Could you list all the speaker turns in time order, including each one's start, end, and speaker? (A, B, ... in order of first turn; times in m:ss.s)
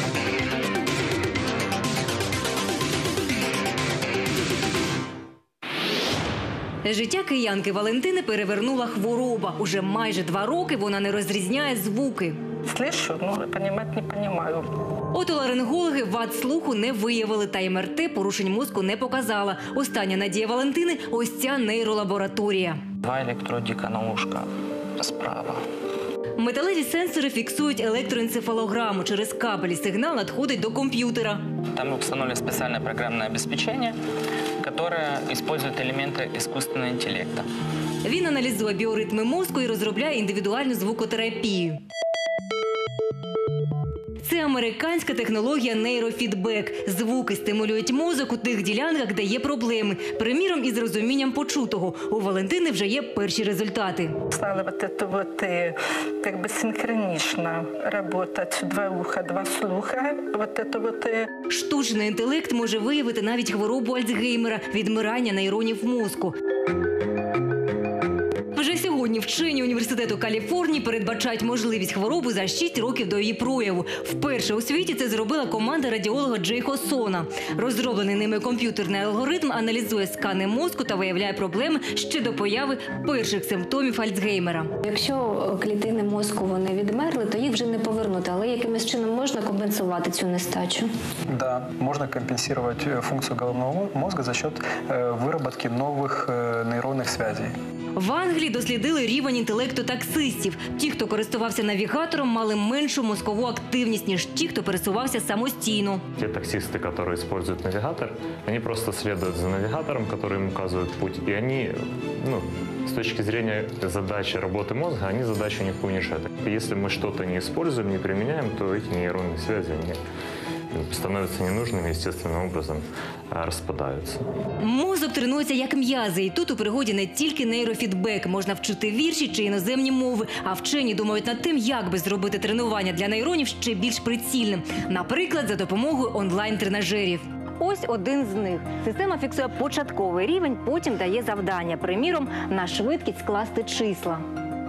0:06.8-0:12.4 A
0:12.6-0:14.7 B
0:15.1-0:22.8 A
0:23.0-0:25.6 C
0:26.4-0:31.4 A
0:31.7-0:34.0 C
0:34.6-0:37.5 C
0:38.0-0:41.8 A
0:44.2-0:54.1 A
0:54.3-1:01.3 B
1:01.5-1:06.3 A
1:08.5-1:24.7 A
1:24.8-1:30.9 D
1:31.3-1:37.5 E
1:38.0-1:46.1 A
1:46.2-2:00.0 F
2:00.7-2:04.2 F
2:04.6-2:24.2 A